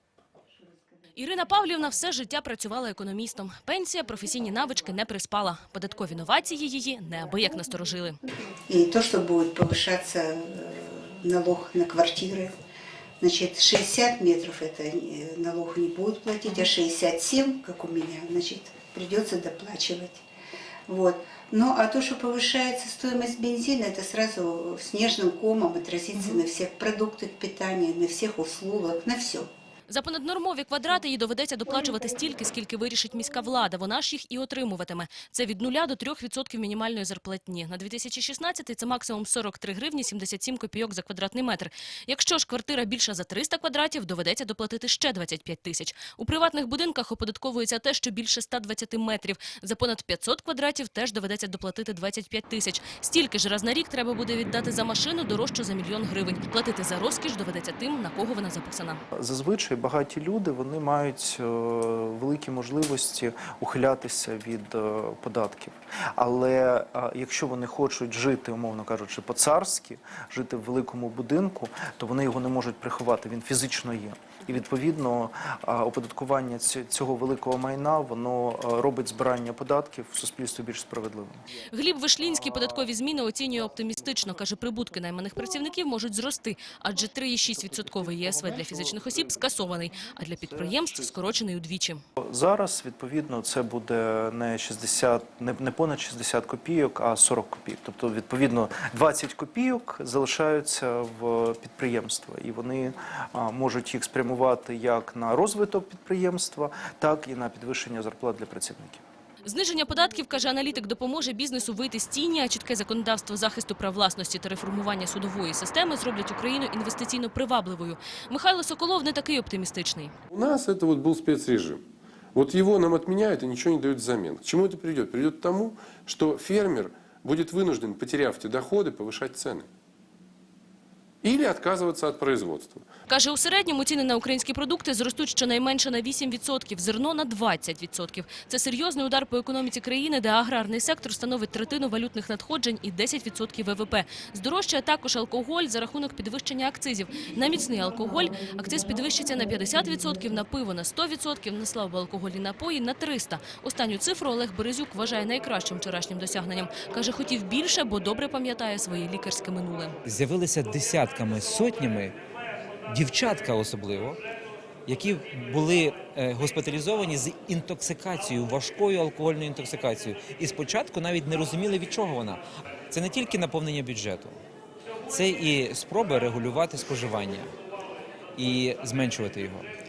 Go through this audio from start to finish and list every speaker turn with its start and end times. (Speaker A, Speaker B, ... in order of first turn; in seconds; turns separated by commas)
Speaker A: 1.1-8.2, Speaker B: 8.7-12.5, Speaker B: 13.2-20.2, Speaker B: 20.9-29.5, Speaker A: 29.9-59.0, Speaker C: 59.1-81.4, Speaker A: 81.7-92.0, Speaker C: 92.2-109.0, Speaker A: 109.4-120.1, Speaker D: 120.3-121.8, Speaker D: 122.3-129.7, Speaker D: 131.2-132.8, Speaker A: 133.1-160.0, Speaker E: 160.0-162.2, Speaker E: 162.9-164.2, Speaker E: 164.9-174.3, Speaker E: 175.1-177.5, Speaker E: 178.3-179.7